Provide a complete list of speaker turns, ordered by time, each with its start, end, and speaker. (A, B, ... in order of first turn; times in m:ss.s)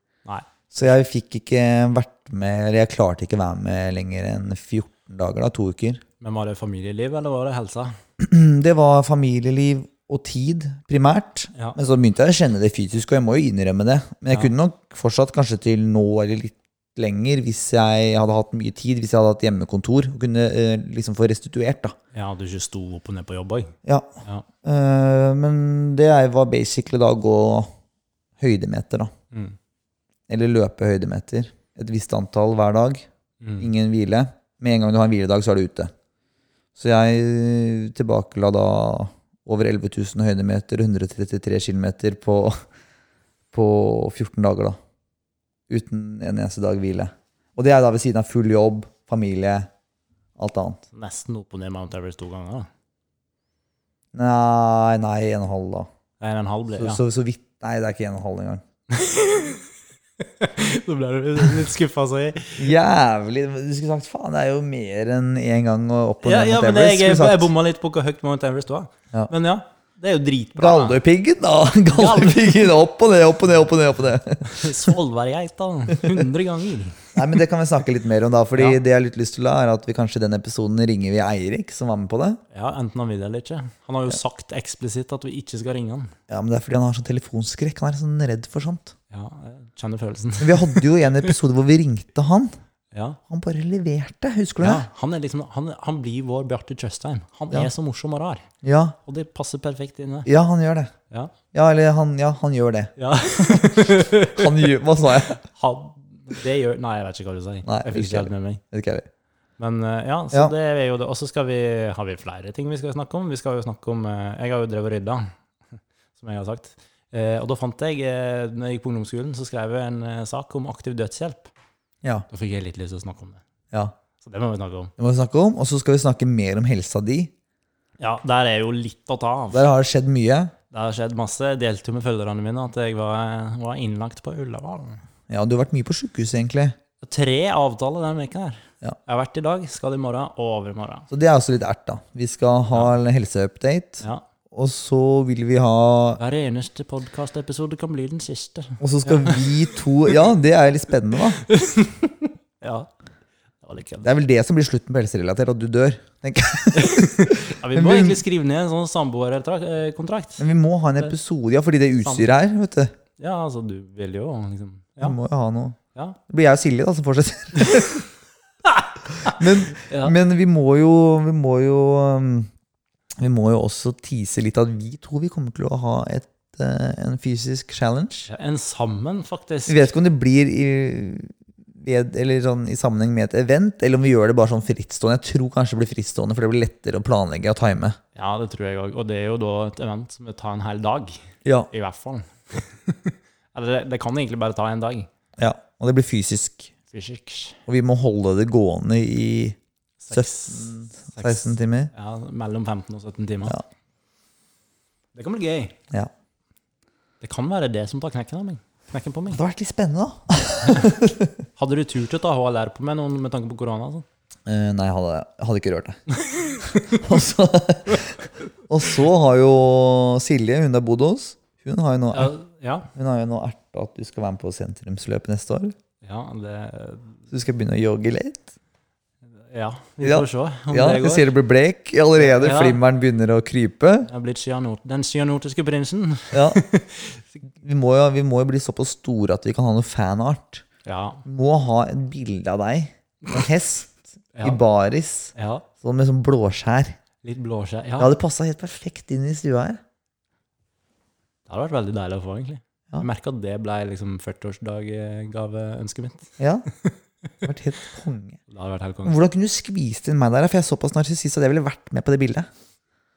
0:00.7-0:06.0 A
0:06.2-0:08.0 B
0:08.2-0:21.9 A
0:22.1-0:24.4 B
0:24.6-0:27.7 A
0:28.4-0:29.1 A
0:30.3-0:33.0 A
0:33.4-0:33.7 B
0:33.6-0:35.9 A
0:36.8-0:42.5 A
0:43.5-0:44.8 A
0:45.7-0:49.7 A
0:50.4-0:50.8 A
0:50.9-0:52.7 B
0:54.1-0:55.9 A
0:56.2-0:57.0 B
0:56.7-0:58.6 A
0:58.9-0:59.7 B
1:00.2-1:02.7 B
1:02.6-1:07.5 A
1:06.2-1:11.0 B
1:10.6-1:14.9 A
1:11.9-1:12.7 B
1:14.4-1:17.2 B
1:15.9-1:16.2 A
1:17.1-1:22.4 A
1:18.5-1:18.8 B
1:22.5-1:26.1 B
1:26.3-1:28.9 A
1:29.1-1:31.3 B
1:30.4-1:32.5 A
1:32.9-1:33.2 B
1:33.3-1:34.8 A
1:34.6-1:38.5 B
1:38.6-1:39.0 A
1:39.0-1:40.3 B
1:40.2-1:40.9 A
1:41.5-1:45.4 A
1:43.0-1:48.6 B
1:47.6-1:49.0 A
1:49.6-1:55.3 B
1:56.2-2:01.5 B
2:02.3-2:03.4 B
2:04.2-2:04.9 B
2:05.0-2:07.3 A
2:08.0-2:09.7 B
2:09.5-2:10.5 A
2:10.7-2:15.0 B
2:15.3-2:16.7 A
2:17.0-2:21.1 B
2:21.1-2:26.2 A
2:22.7-2:23.0 B
2:26.2-2:30.2 B
2:28.8-2:31.4 A
2:31.4-2:32.9 B
2:33.6-2:34.1 B
2:34.0-2:38.2 A
2:36.7-2:40.4 B
2:40.4-2:42.9 A
2:42.0-2:42.3 B
2:43.2-2:45.2 B
2:45.0-2:48.0 A
2:47.6-2:48.0 B
2:48.6-2:50.2 B
2:49.2-2:52.5 A
2:53.2-2:58.3 A
2:58.3-2:59.9 B
2:59.7-3:08.0 A
3:08.1-3:15.1 B
3:11.4-3:11.7 A
3:15.4-3:16.7 A
3:16.9-3:17.6 B
3:17.7-3:19.6 A
3:20.0-3:23.6 B
3:20.1-3:21.9 A
3:25.1-3:25.8 B
3:27.2-3:29.4 B
3:29.3-3:31.4 A
3:31.6-3:34.0 B
3:34.4-3:36.0 A
3:36.1-3:37.2 B
3:36.9-3:42.3 A
3:42.1-3:42.9 B
3:42.9-3:45.7 A
3:46.0-3:47.2 B
3:47.3-3:48.5 A
3:49.4-3:51.3 B
3:50.0-3:54.1 A
3:52.2-3:52.8 B
3:54.0-3:57.4 B
3:56.3-3:56.6 A
3:57.6-4:00.6 A
4:00.8-4:01.2 B
4:01.2-4:07.0 A
4:04.3-4:04.6 B
4:05.3-4:05.6 B
4:07.2-4:08.1 B
4:08.0-4:09.8 A
4:11.5-4:17.0 B
4:16.4-4:16.6 A
4:17.4-4:18.4 A
4:18.5-4:19.2 B
4:19.0-4:22.4 A